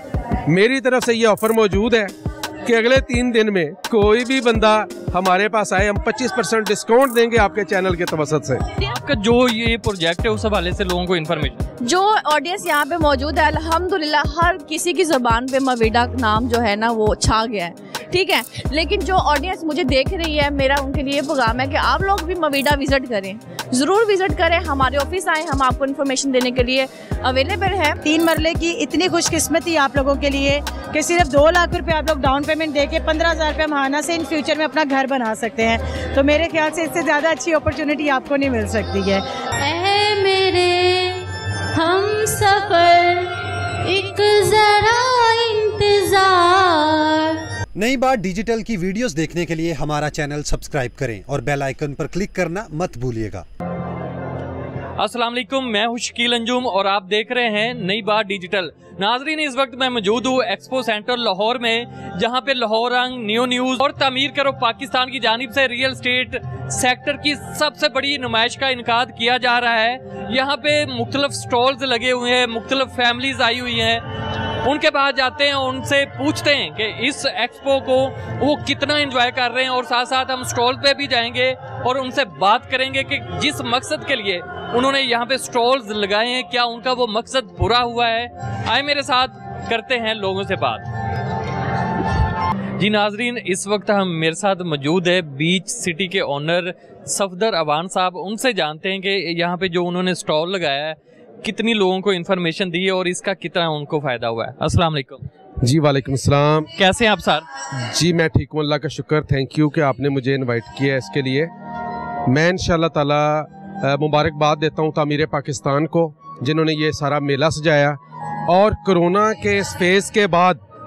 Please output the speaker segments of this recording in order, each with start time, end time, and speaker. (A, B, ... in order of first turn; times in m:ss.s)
0:00.5-0:02.1 A
0:02.6-0:08.6 A
0:08.8-0:11.6 B
0:11.8-0:28.0 C
0:28.0-0:39.2 D
0:39.6-0:43.3 E
0:43.8-0:47.4 E
0:47.8-0:53.4 F
0:55.0-1:14.0 B
1:14.6-1:30.9 B
1:32.8-1:45.2 B
1:45.6-1:46.7 A
1:46.8-1:47.4 B
1:47.9-1:51.5 A
1:52.3-2:00.6 A